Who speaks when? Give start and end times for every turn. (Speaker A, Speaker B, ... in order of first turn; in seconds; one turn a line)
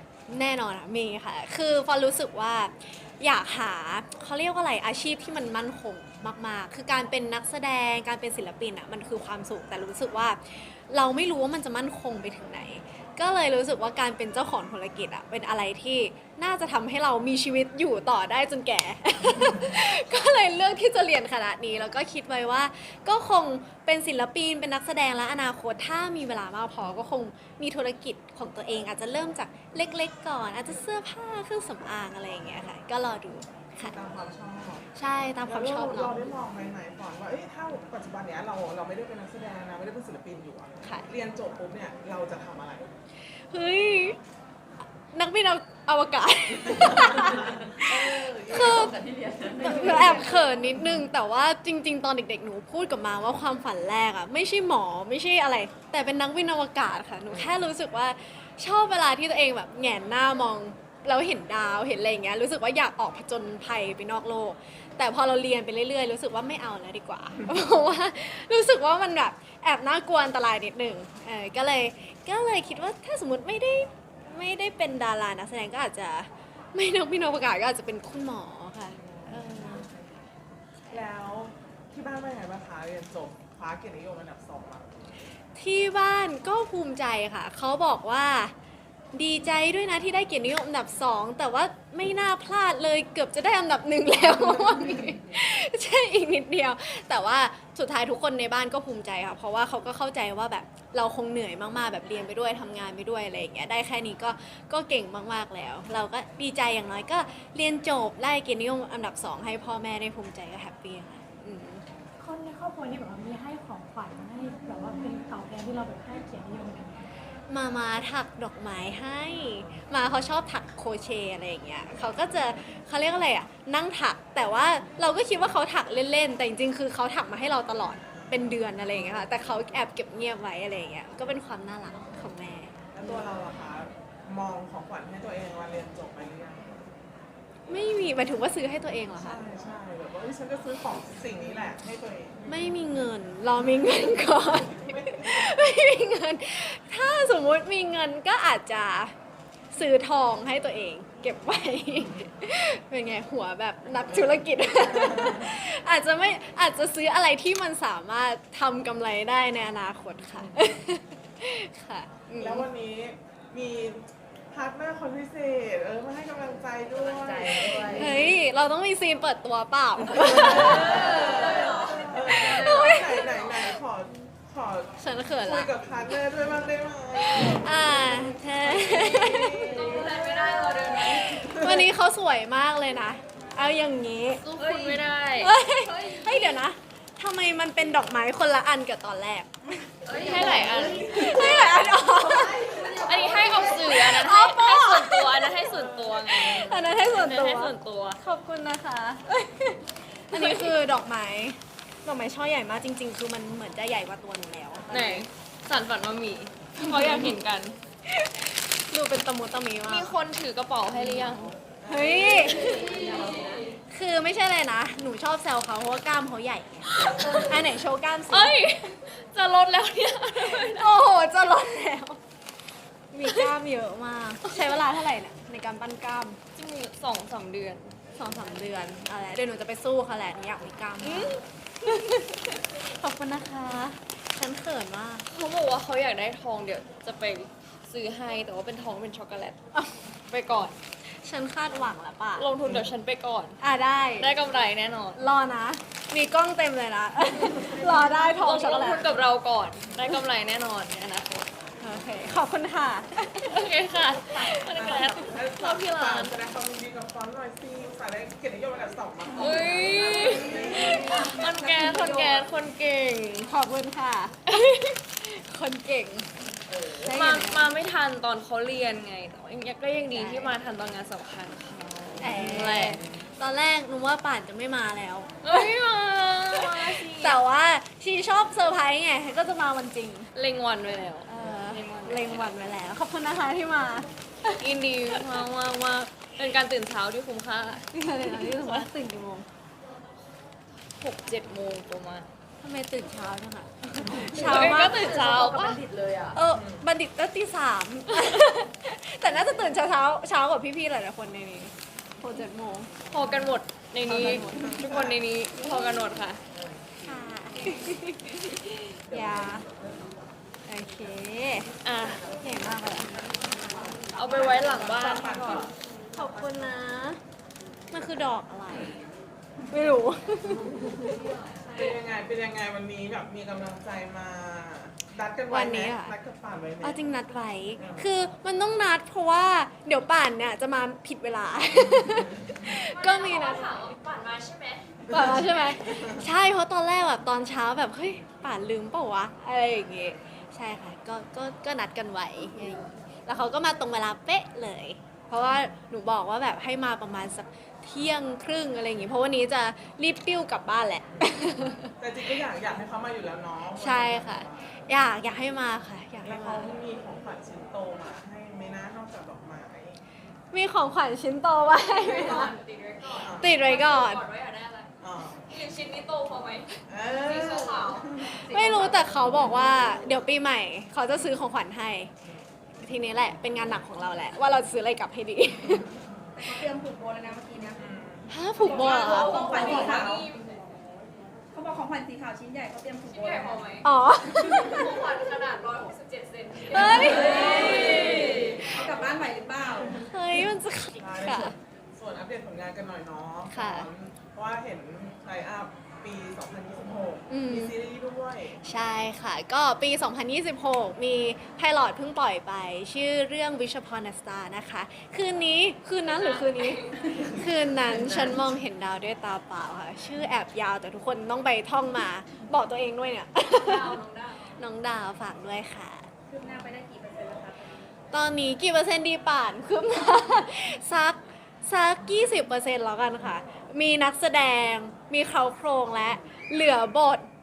Speaker A: 0.3-34.0
Speaker B: 33.9-34.9
Speaker A: 35.0-36.3
Speaker B: 35.5-43.0
Speaker A: 43.3-44.2
Speaker A: 45.1-49.0
Speaker B: 47.9-48.8
Speaker C: 48.7-49.8
Speaker A: 49.6-79.9
Speaker D: 49.8-50.2
Speaker B: 80.9-85.2
Speaker A: 85.5-88.5
Speaker A: 89.1-111.8
Speaker D: 112.2-117.1
Speaker A: 117.5-133.2
Speaker B: 132.9-136.9
Speaker A: 137.7-139.4
Speaker B: 139.2-142.5
Speaker A: 142.5-149.1
Speaker B: 144.8-145.5
Speaker A: 149.7-162.7
Speaker B: 154.9-155.5
Speaker B: 162.4-168.2
Speaker C: 167.0-168.0
Speaker A: 167.9-173.8
Speaker B: 170.3-181.8
Speaker E: 171.0-172.8
Speaker A: 175.0-176.3
Speaker A: 177.2-179.9
Speaker E: 179.5-181.5
Speaker A: 181.1-205.0
Speaker E: 184.4-186.5
Speaker E: 190.1-191.4
Speaker B: 190.8-191.7
Speaker E: 193.0-198.2
Speaker B: 195.9-196.1
Speaker E: 200.3-200.8
Speaker E: 204.9-207.8
Speaker A: 208.1-210.1
Speaker E: 209.8-211.6
Speaker A: 211.0-211.3
Speaker B: 211.8-213.3
Speaker A: 211.8-213.2
Speaker E: 212.5-213.7
Speaker A: 213.9-218.5
Speaker E: 217.0-217.5
Speaker E: 218.3-220.9
Speaker A: 220.4-222.2
Speaker A: 223.1-226.4
Speaker E: 223.2-223.5
Speaker E: 224.5-224.8
Speaker E: 226.6-228.0
Speaker A: 228.2-235.3
Speaker E: 231.0-231.4
Speaker E: 235.3-239.6
Speaker A: 239.7-240.1
Speaker E: 240.3-240.8
Speaker A: 241.1-242.5
Speaker E: 242.4-243.6
Speaker B: 242.7-242.9
Speaker A: 243.6-244.4
Speaker E: 244.2-245.2
Speaker A: 245.2-249.1
Speaker E: 248.3-251.5
Speaker A: 251.8-255.2
Speaker E: 253.5-256.4
Speaker B: 254.7-261.4
Speaker E: 259.4-263.5
Speaker A: 260.6-262.4
Speaker A: 263.5-266.3
Speaker B: 266.7-267.1
Speaker A: 266.9-267.7
Speaker E: 267.0-273.1
Speaker A: 270.1-270.5
Speaker A: 272.2-280.3
Speaker E: 275.4-277.4
Speaker E: 280.4-282.5
Speaker A: 281.3-285.4
Speaker E: 284.6-288.9
Speaker A: 287.9-289.5
Speaker E: 291.0-292.3
Speaker A: 292.6-295.8
Speaker E: 294.3-295.8
Speaker C: 295.2-296.4
Speaker A: 296.3-302.9
Speaker B: 296.5-296.8
Speaker E: 303.1-306.4
Speaker A: 304.1-304.8
Speaker B: 304.2-305.2
Speaker B: 306.5-306.8
Speaker A: 307.0-309.6
Speaker B: 309.1-310.1
Speaker A: 310.7-311.7
Speaker E: 311.8-312.2
Speaker A: 312.3-313.3
Speaker E: 314.1-315.7
Speaker B: 314.2-315.7
Speaker A: 316.1-317.2
Speaker A: 317.9-319.0
Speaker A: 319.7-321.2
Speaker E: 321.1-321.9
Speaker B: 321.8-327.1
Speaker A: 325.5-326.1
Speaker A: 326.8-333.9
Speaker B: 327.8-328.1
Speaker E: 332.9-334.9
Speaker A: 335.1-351.9
Speaker B: 352.0-354.7
Speaker A: 353.8-356.7
Speaker B: 356.2-360.0
Speaker A: 360.5-362.5
Speaker E: 361.9-364.9
Speaker B: 363.2-363.5
Speaker A: 363.4-364.2
Speaker B: 365.0-365.5
Speaker E: 365.5-368.1
Speaker B: 366.9-368.3
Speaker A: 368.2-372.1
Speaker C: 368.5-369.0
Speaker A: 372.8-375.9
Speaker C: 376.4-377.8
Speaker B: 377.8-378.4
Speaker A: 378.3-380.0
Speaker D: 378.6-379.5
Speaker C: 378.6-380.2
Speaker E: 378.7-380.6
Speaker C: 381.5-383.6
Speaker E: 383.1-383.9
Speaker A: 383.8-385.0
Speaker D: 384.4-384.8
Speaker E: 384.6-388.6
Speaker A: 386.7-388.3
Speaker B: 387.3-388.1
Speaker C: 387.9-390.0
Speaker D: 388.4-390.0
Speaker A: 390.0-391.6
Speaker B: 391.0-398.6
Speaker A: 393.5-393.9
Speaker A: 397.3-397.7
Speaker A: 398.6-414.0
Speaker E: 406.1-407.0
Speaker E: 413.5-414.5
Speaker A: 414.6-416.1
Speaker C: 416.3-417.9
Speaker A: 418.1-427.2